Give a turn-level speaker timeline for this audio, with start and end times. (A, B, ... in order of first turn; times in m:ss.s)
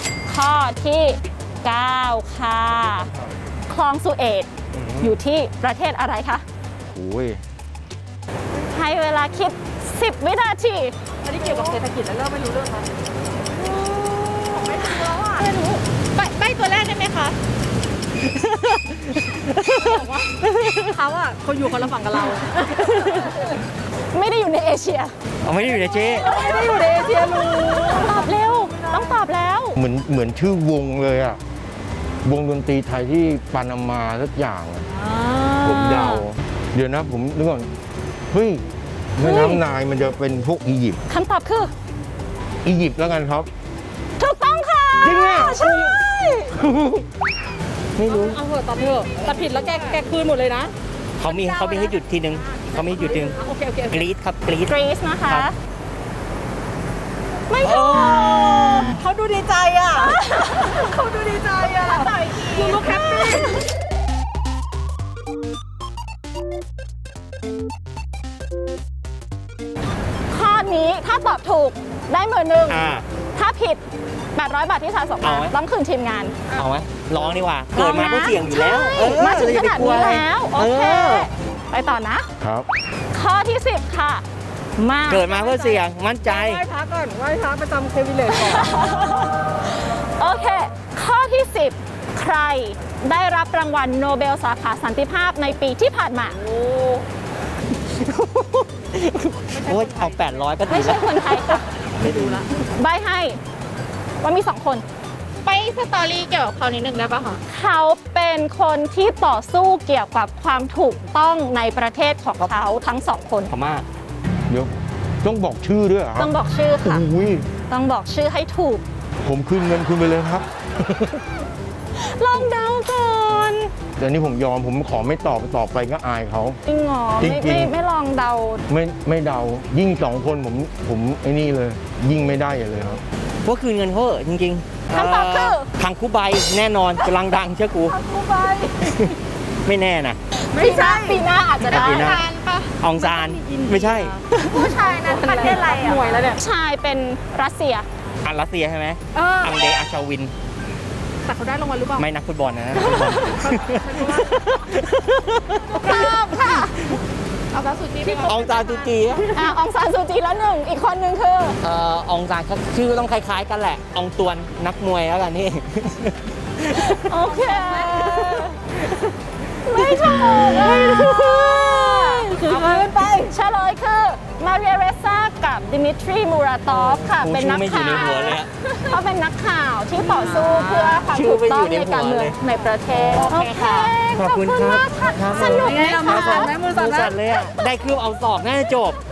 0:00.3-0:03.1 A
0:03.7-0:04.5 A
0:04.7-0:05.1 B
0:05.0-0:06.4 A
0:06.9-0:07.4 B
0:08.7-0:10.9 A
0:11.2-0:12.9 C
0:13.6-0:15.8 A
0:14.5-0:15.4 C
0:16.2-0:16.6 D
0:16.5-0:17.2 C
0:18.2-0:20.8 E
0:19.8-0:20.3 C
0:20.9-0:23.3 C
0:22.6-0:23.4 A
0:24.1-0:25.1 A
0:25.4-0:26.3 E
0:26.2-0:29.8 A
0:26.3-0:28.2 C
0:29.7-0:31.4 B
0:32.2-0:34.9 B
0:34.9-0:36.2 A
0:35.6-0:37.7 B
0:38.3-0:38.6 B
0:39.1-0:41.0 B
0:39.2-0:39.6 A
0:41.1-0:41.7 A
0:42.6-0:43.5 B
0:44.2-0:46.5 A
0:45.0-0:46.0 B
0:46.5-0:47.0 B
0:48.0-0:48.4 E
0:48.0-0:50.7 C
0:51.2-0:54.7 E
0:51.3-0:51.9 C
0:52.6-0:54.0 C
0:54.7-0:55.5 A
0:57.5-0:58.3 A
0:57.6-0:58.9 E
0:58.1-1:03.6 C
0:59.9-1:00.9 A
1:01.6-1:03.6 A
1:10.3-1:12.8 A
1:12.7-1:13.0 E
1:13.3-1:13.8 A
1:14.3-1:16.3 A
1:15.2-1:15.5 E
1:16.6-1:21.3 E
1:17.7-1:22.3 A
1:22.4-1:22.6 B
1:23.1-1:24.2 A
1:24.8-1:25.3 A
1:25.1-1:26.6 E
1:25.2-1:28.7 C
1:28.3-1:36.4 A
1:36.4-1:37.0 C
1:37.9-1:41.2 E
1:39.5-1:40.8 C
1:40.7-1:41.6 A
1:42.0-1:42.4 C
1:42.0-1:42.4 E
1:42.7-1:43.4 A
1:44.2-1:44.8 A
1:45.4-1:47.4 D
1:47.5-1:53.5 A
1:52.4-1:52.7 E
1:53.5-1:53.8 E
1:55.2-1:57.5 B
1:56.2-1:57.0 A
1:57.7-1:58.8 A
1:59.2-2:01.2 B
2:02.0-2:03.7 A
2:04.0-2:06.6 B
2:06.6-2:08.6 A
2:07.2-2:07.7 B
2:08.7-2:13.0 B
2:13.4-2:18.0 E
2:14.9-2:15.7 A
2:17.9-2:18.7 C
2:18.8-2:19.1 E
2:19.6-2:20.2 E
2:20.4-2:22.2 A
2:20.5-2:21.2 C
2:21.7-2:22.2 E
2:21.8-2:26.4 C
2:22.8-2:24.7 E
2:24.6-2:27.8 A
2:28.2-2:30.3 E
2:29.1-2:29.6 C
2:31.2-2:32.0 C
2:32.0-2:36.2 E
2:32.8-2:33.3 A
2:33.4-2:34.3 C
2:35.8-2:36.6 C
2:35.8-2:36.7 A
2:37.6-2:38.3 D
2:37.6-2:38.8 C
2:38.2-2:39.3 E
2:39.3-2:41.6 A
2:41.6-2:48.4 E
2:46.9-2:48.5 A
2:49.6-2:52.4 A
2:49.8-2:52.8 E
2:52.4-2:53.3 C
2:53.2-3:06.5 A
2:56.7-2:58.5 E
3:00.2-3:01.0 C
3:01.1-3:02.4 E
3:03.2-3:09.0 E
3:05.4-3:07.2 C